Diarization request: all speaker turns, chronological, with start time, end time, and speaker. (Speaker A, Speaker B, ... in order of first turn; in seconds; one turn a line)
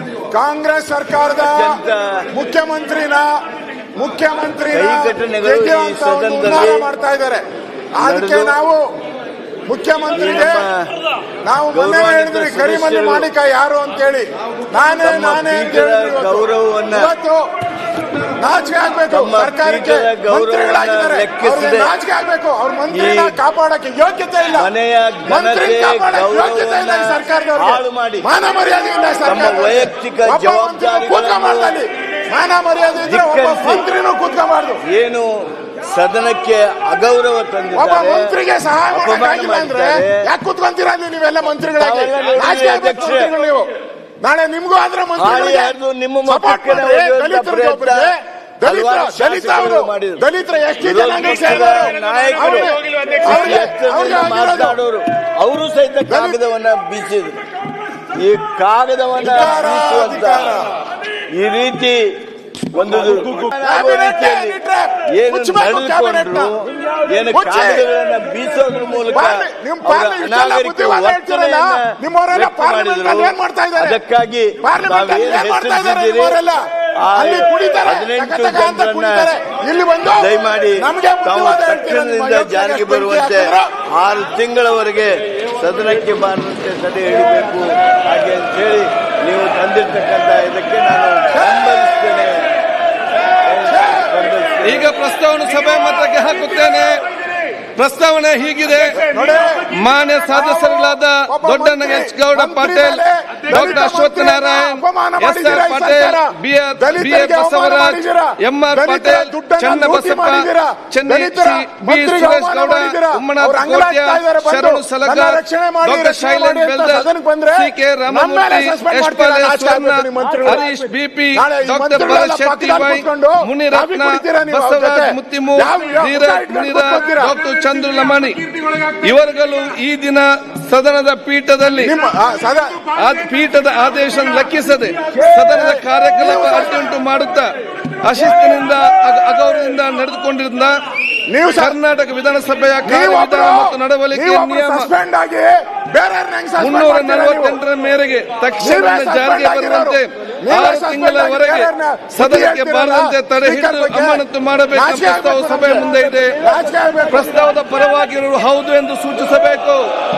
Speaker A: 0.3-1.8
Speaker B: 1.4-2.2
Speaker A: 2.3-3.3
Speaker A: 4.0-7.4
Speaker B: 4.7-6.9
Speaker A: 8.0-8.8
Speaker B: 8.0-8.6
Speaker A: 9.7-10.7
Speaker B: 10.1-10.9
Speaker A: 11.4-17.4
Speaker B: 11.7-13.3
Speaker B: 15.0-17.1
Speaker A: 18.4-24.7
Speaker B: 19.1-21.9
Speaker B: 22.9-23.4
Speaker B: 24.6-28.3
Speaker A: 25.3-34.8
Speaker B: 29.2-31.8
Speaker B: 33.0-33.9
Speaker B: 34.9-38.4
Speaker A: 37.7-43.7
Speaker B: 38.9-40.2
Speaker B: 41.8-43.4
Speaker A: 44.2-54.8
Speaker B: 45.2-48.1
Speaker B: 48.6-50.2
Speaker B: 50.8-57.4
Speaker A: 56.1-56.4
Speaker B: 58.1-60.6
Speaker A: 59.2-60.7
Speaker B: 61.3-62.1
Speaker B: 62.7-64.6
Speaker A: 63.5-66.5
Speaker B: 65.2-76.4
Speaker A: 67.3-67.9
Speaker A: 69.1-74.0
Speaker A: 74.6-76.6
Speaker B: 77.0-79.3
Speaker A: 77.2-83.7
Speaker B: 80.1-92.5
Speaker B: 93.4-94.9
Speaker C: 94.6-97.0
Speaker C: 97.8-99.1
Speaker A: 98.9-99.7
Speaker C: 99.7-131.9
Speaker A: 100.3-127.4
Speaker A: 131.8-132.9
Speaker C: 133.0-137.5
Speaker A: 135.1-136.9
Speaker C: 138.0-140.8
Speaker A: 141.3-141.8
Speaker C: 141.5-144.9
Speaker A: 142.8-147.6
Speaker C: 146.6-156.4
Speaker A: 148.6-157.5
Speaker C: 157.1-159.9